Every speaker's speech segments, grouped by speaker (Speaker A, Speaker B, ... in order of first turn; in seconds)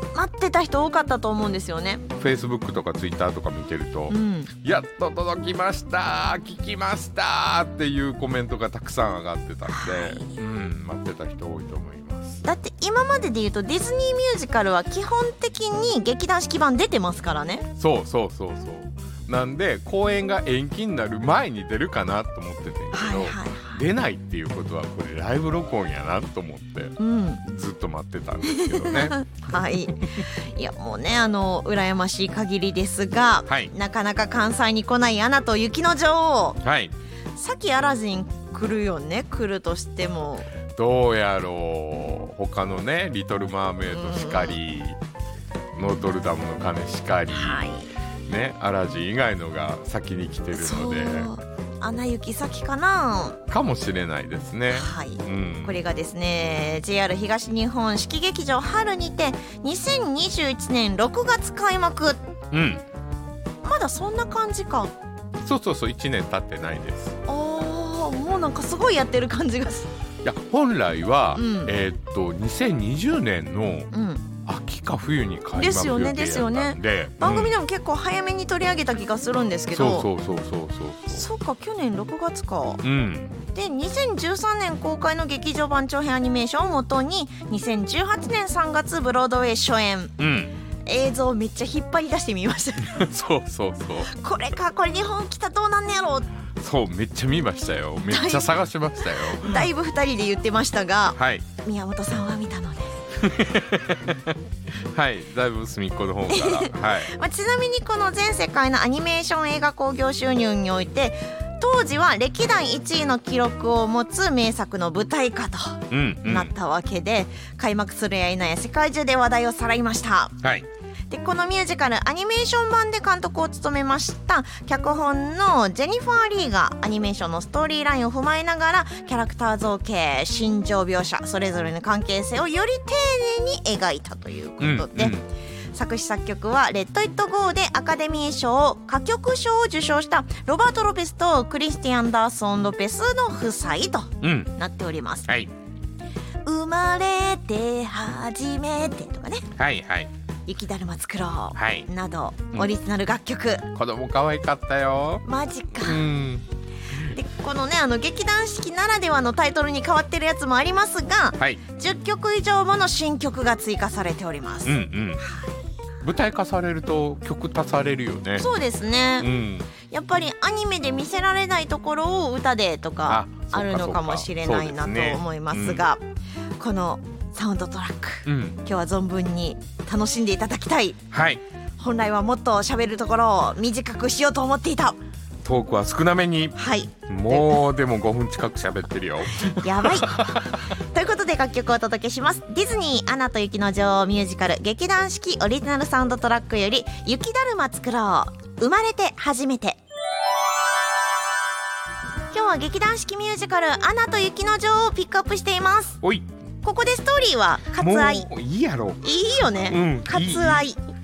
Speaker A: 0.1-2.0, 4.1-4.5, 9.7-10.3, 12.4-17.7, 22.9-23.9, 27.0-27.4, 28.5-36.6, 37.4-40.5, 43.9-44.6, 47.3-47.9, 50.5-53.4, 54.7-62.2, 63.6-64.9, 67.2-69.9, 71.3-71.7, 73.9-74.3, 75.5-80.1, 81.1-82.8, 83.5-90.2, 90.8-93.1, 94.1-96.3, 98.1-103.0, 106.3-120.4, 121.1-135.2, 135.7-145.3, 146.4-149.5, 150.5-153.7, 155.2-156.1, 157.0-165.6, 168.3-169.3, 169.8-176.0, 176.6-181.0, 181.8-185.0, 186.6-187.6, 189.5-199.8, 202.3-206.0, 206.6-208.3, 209.0-210.8
Speaker B: 2.2-12.4, 17.8-29.2, 36.6-36.9, 40.7-45.0, 45.7-47.7, 48.3-51.3, 53.5-55.8, 62.5-62.8, 65.4-67.2, 70.2-73.9, 74.4-77.5, 79.7-81.2, 82.8-83.4, 90.2-90.5, 92.9-94.1, 96.6-99.7, 101.2-101.4, 103.2-104.2, 104.9-107.1, 115.9-116.5, 134.6-135.2, 144.2-144.5, 149.6-150.1, 151.6-151.9, 153.7-155.2, 155.8-156.4, 164.7-165.2, 166.0-168.5, 169.2-169.7, 173.1-175.8, 178.2-178.6, 181.1-181.4, 185.4-186.6, 187.1-190.4, 207.8-209.0, 209.7-210.7